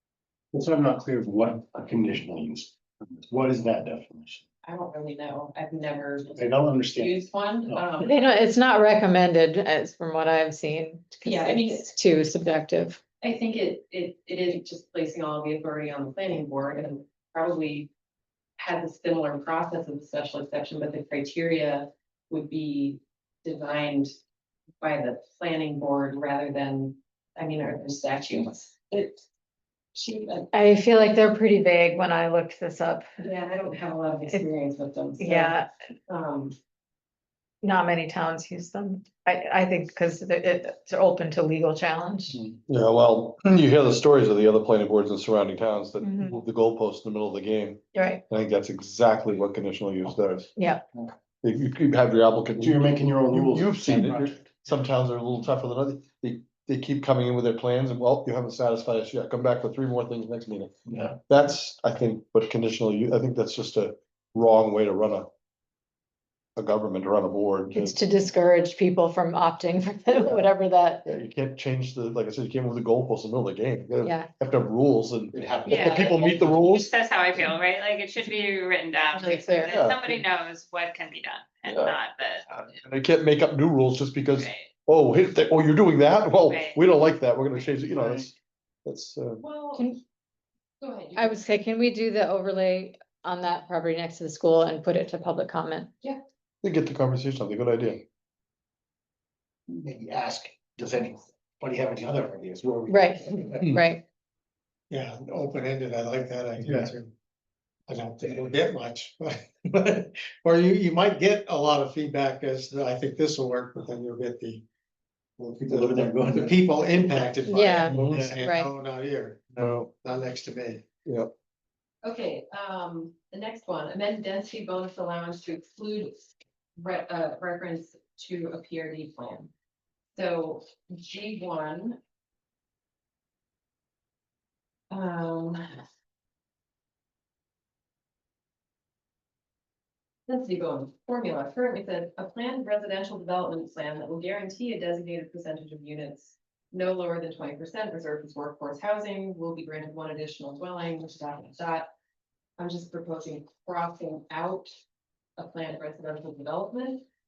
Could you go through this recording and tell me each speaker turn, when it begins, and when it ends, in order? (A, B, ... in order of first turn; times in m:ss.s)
0:00.5-0:04.4 A
0:04.6-0:08.1 B
0:06.4-0:07.9 A
0:08.0-0:13.0 C
0:11.2-0:11.9 B
0:13.2-0:17.9 B
0:18.6-0:24.1 B
0:24.8-0:29.2 B
0:30.0-0:30.5 B
0:30.5-0:33.1 C
0:33.2-0:35.6 B
0:35.2-0:35.7 C
0:36.1-0:36.5 B
0:37.6-0:42.4 C
0:42.7-0:50.5 D
0:46.0-0:46.4 C
0:47.9-0:48.2 C
0:50.6-0:50.9 C
0:51.4-1:00.8 D
0:52.6-0:54.7 A
1:00.9-1:01.2 A
1:01.3-1:05.3 D
1:06.6-1:08.0 D
1:07.7-1:11.1 C
1:11.0-1:16.9 D
1:14.0-1:14.3 C
1:15.3-1:16.6 A
1:15.6-1:22.5 E
1:19.1-1:19.7 C
1:19.7-1:20.1 D
1:21.7-1:28.3 D
1:24.4-1:24.7 E
1:26.5-1:26.8 E
1:28.8-1:29.4 D
1:29.4-1:29.9 B
1:29.8-1:30.0 C
1:30.8-1:31.5 B
1:31.2-1:35.9 C
1:36.6-1:38.0 D
1:39.7-1:43.8 A
1:42.9-1:44.0 C
1:44.9-1:47.1 F
1:46.6-1:46.9 A
1:47.9-1:54.7 F
1:55.4-2:00.8 F
1:55.5-1:56.6 A
1:57.5-1:58.7 C
1:57.9-1:58.3 A
1:59.6-1:59.9 D
2:01.1-2:01.3 D
2:02.0-2:06.3 B
2:06.8-2:09.5 B
2:10.2-2:12.0 B
2:14.9-2:15.8 B
2:20.3-2:31.9 B
2:32.6-2:34.7 B
2:35.4-2:37.0 B